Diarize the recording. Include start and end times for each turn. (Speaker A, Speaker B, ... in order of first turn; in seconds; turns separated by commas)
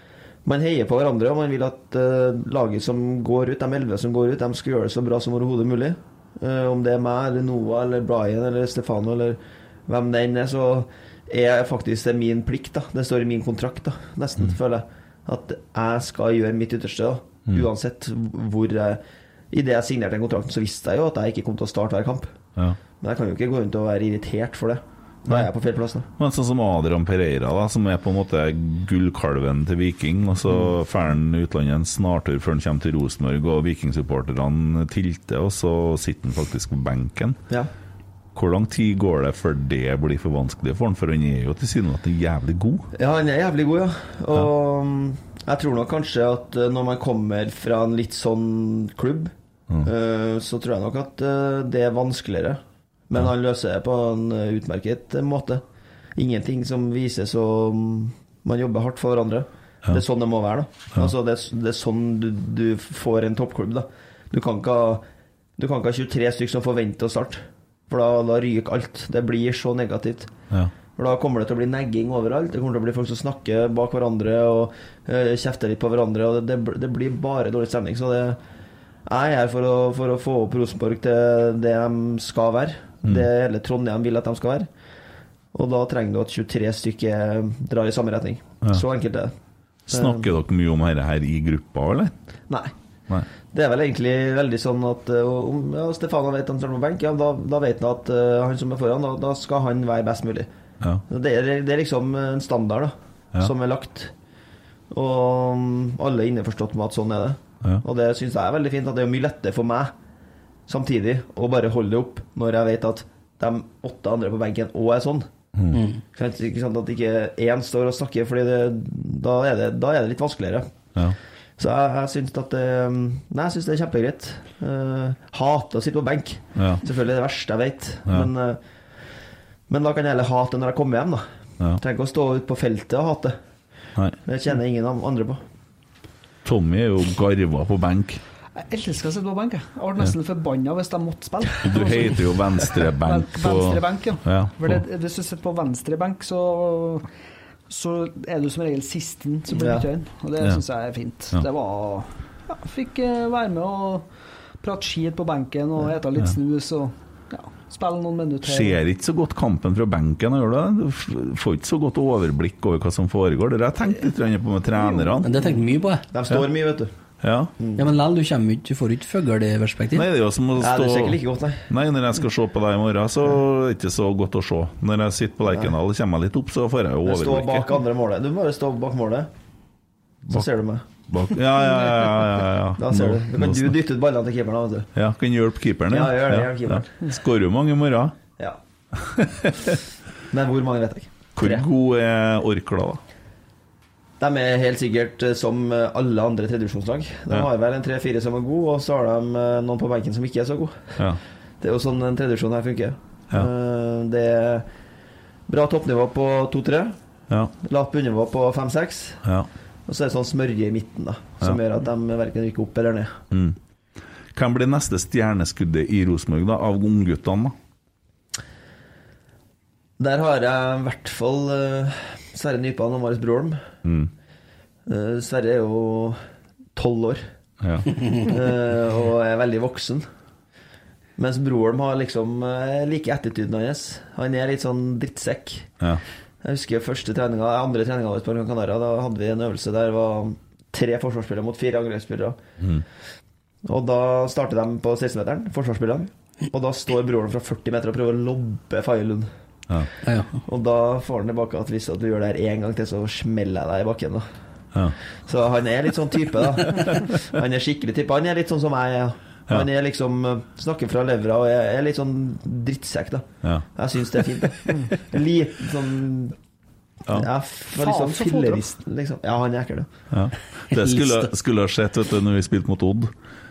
Speaker A: 0.5-22.3, Speaker A: 23.0-26.1, Speaker B: 26.2-37.4, Speaker B: 38.4-42.9, Speaker A: 43.0-49.3, Speaker A: 49.8-55.6, Speaker A: 56.2-65.0, Speaker A: 65.6-70.3, Speaker A: 71.0-78.4, Speaker A: 79.1-84.7, Speaker A: 85.5-89.3, Speaker B: 89.9-92.1, Speaker A: 89.9-90.3, Speaker A: 93.5-100.5, Speaker A: 101.1-104.1, Speaker A: 104.9-109.9, Speaker A: 110.7-115.3, Speaker B: 115.5-115.8, Speaker A: 116.2-120.7, Speaker A: 121.6-128.6, Speaker B: 126.6-126.8, Speaker A: 129.7-131.3, Speaker A: 131.8-133.4, Speaker A: 134.3-135.4, Speaker B: 136.4-138.2, Speaker C: 138.6-147.1, Speaker B: 141.6-144.8, Speaker C: 147.7-154.1, Speaker A: 149.5-149.9, Speaker C: 154.6-158.8, Speaker B: 158.4-165.3, Speaker D: 165.2-166.1, Speaker A: 166.1-166.9, Speaker B: 167.2-167.5, Speaker A: 167.6-167.9, Speaker D: 167.8-170.1, Speaker B: 169.9-177.7, Speaker A: 170.6-171.7, Speaker A: 177.1-179.3, Speaker A: 180.3-180.8, Speaker B: 181.1-183.8, Speaker A: 182.8-184.9, Speaker B: 184.9-188.2, Speaker A: 185.9-186.9, Speaker B: 189.0-189.8, Speaker A: 190.3-191.7, Speaker B: 191.4-193.0, Speaker A: 194.2-201.0, Speaker A: 201.6-204.7, Speaker A: 205.5-207.0, Speaker A: 207.6-209.2, Speaker B: 209.2-209.5, Speaker A: 209.9-213.2, Speaker B: 213.3-213.6, Speaker B: 214.3-217.6, Speaker A: 220.0-223.6, Speaker B: 223.8-224.1, Speaker A: 224.9-226.2, Speaker A: 226.8-227.2, Speaker B: 227.6-227.9, Speaker A: 228.2-230.1, Speaker A: 231.2-235.7, Speaker A: 236.4-242.4, Speaker B: 242.6-242.8, Speaker A: 243.7-249.3, Speaker D: 250.1-250.4, Speaker A: 250.5-254.3, Speaker A: 255.3-266.4, Speaker A: 267.1-269.9, Speaker C: 267.8-268.7, Speaker B: 270.1-273.1, Speaker D: 270.7-271.3